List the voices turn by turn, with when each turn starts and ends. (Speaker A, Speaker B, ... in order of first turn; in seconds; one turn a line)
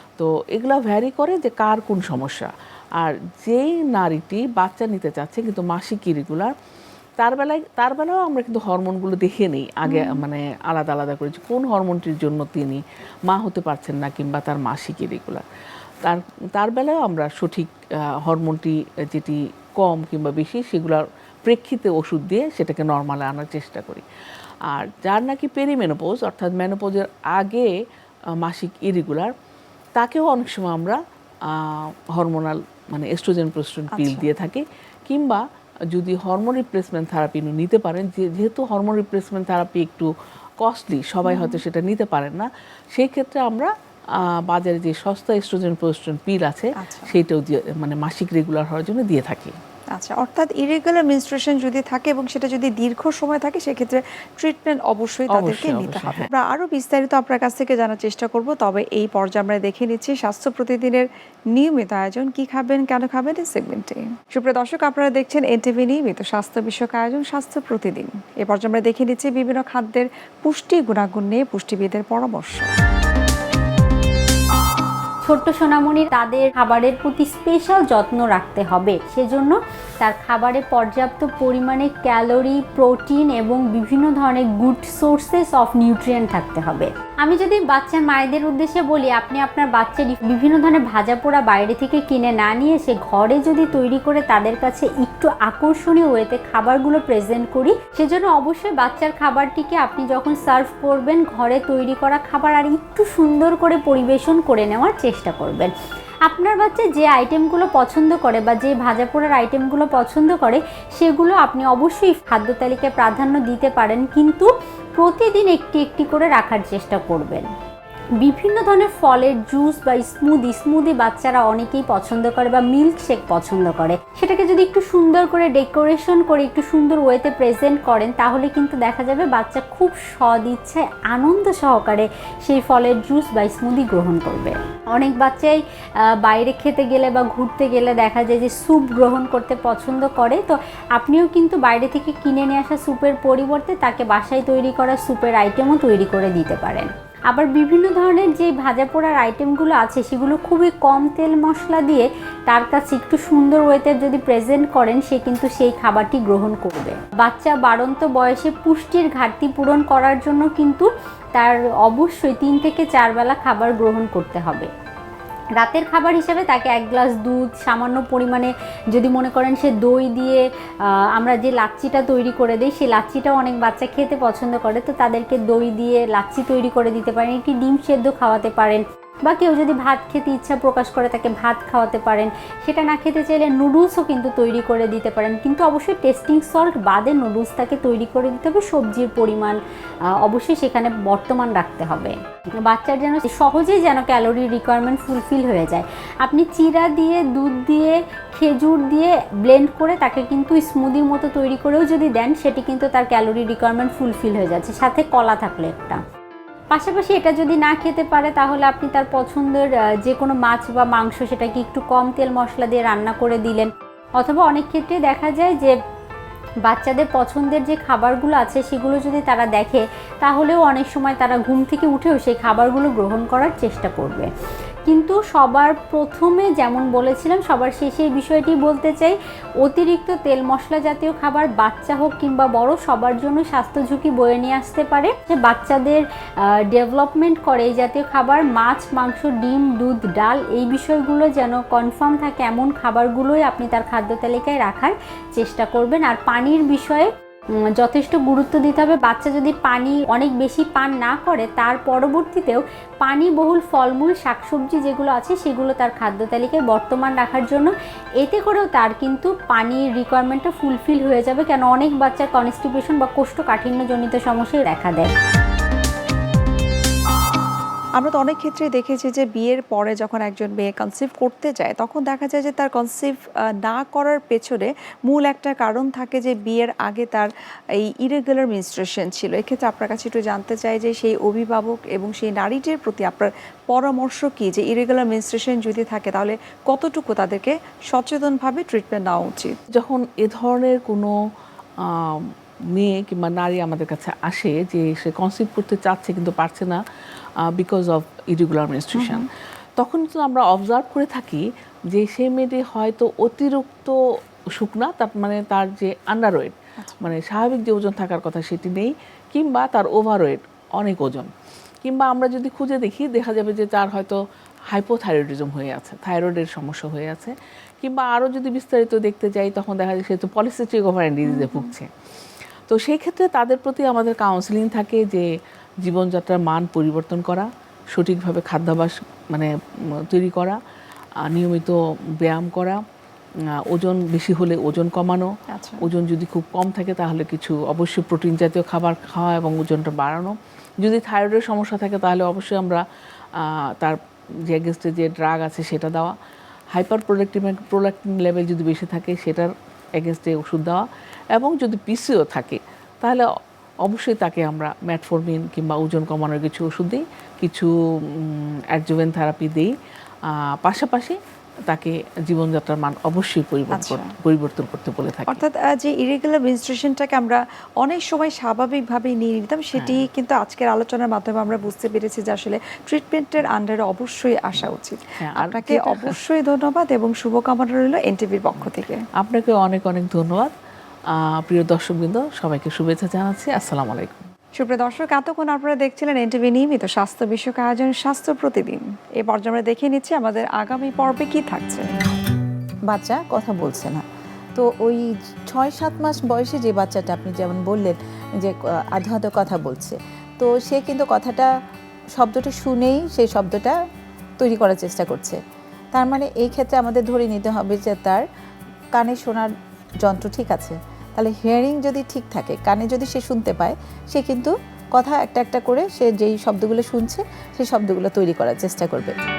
Speaker A: 0.2-6.5
Speaker A: 7.2-15.4
Speaker B: 9.8-10.2
Speaker A: 16.0-24.0
Speaker A: 24.7-27.7
Speaker A: 28.4-29.3
Speaker A: 30.0-49.5
Speaker B: 33.9-34.3
Speaker B: 41.2-41.6
Speaker B: 46.8-47.2
Speaker B: 49.9-72.7
Speaker A: 55.3-56.3
Speaker C: 75.2-105.7
Speaker C: 106.3-117.5
Speaker C: 118.2-135.6
Speaker C: 136.2-164.7
Speaker C: 165.6-170.4
Speaker C: 171.1-189.6
Speaker C: 190.2-206.0
Speaker C: 206.7-215.8
Speaker C: 216.7-224.3
Speaker C: 224.8-236.0
Speaker C: 236.7-247.1
Speaker C: 247.8-265.1
Speaker B: 268.0-289.6
Speaker A: 289.7-291.1
Speaker A: 291.8-296.8
Speaker A: 297.6-299.3
Speaker B: 298.9-299.2
Speaker A: 299.8-304.0
Speaker A: 304.5-311.3
Speaker B: 306.8-307.1
Speaker A: 311.8-314.2
Speaker A: 314.7-321.9
Speaker B: 321.2-321.7
Speaker A: 322.7-325.3
Speaker A: 325.8-329.5
Speaker A: 330.1-330.6
Speaker A: 331.2-332.8
Speaker A: 333.7-335.3
Speaker B: 335.5-335.9
Speaker A: 335.8-342.8
Speaker A: 343.4-346.1
Speaker A: 346.7-350.8
Speaker A: 351.3-353.3
Speaker A: 353.8-359.7
Speaker A: 360.3-361.2
Speaker A: 361.7-365.4
Speaker B: 363.7-364.1
Speaker B: 365.3-379.0
Speaker A: 369.7-370.1
Speaker A: 375.2-376.2
Speaker A: 379.2-380.5
Speaker A: 381.1-384.2
Speaker B: 384.6-391.9
Speaker D: 392.9-394.0
Speaker D: 394.6-401.5
Speaker D: 402.2-403.8
Speaker D: 404.4-405.4
Speaker D: 405.9-408.2
Speaker D: 408.9-409.5
Speaker D: 410.0-419.1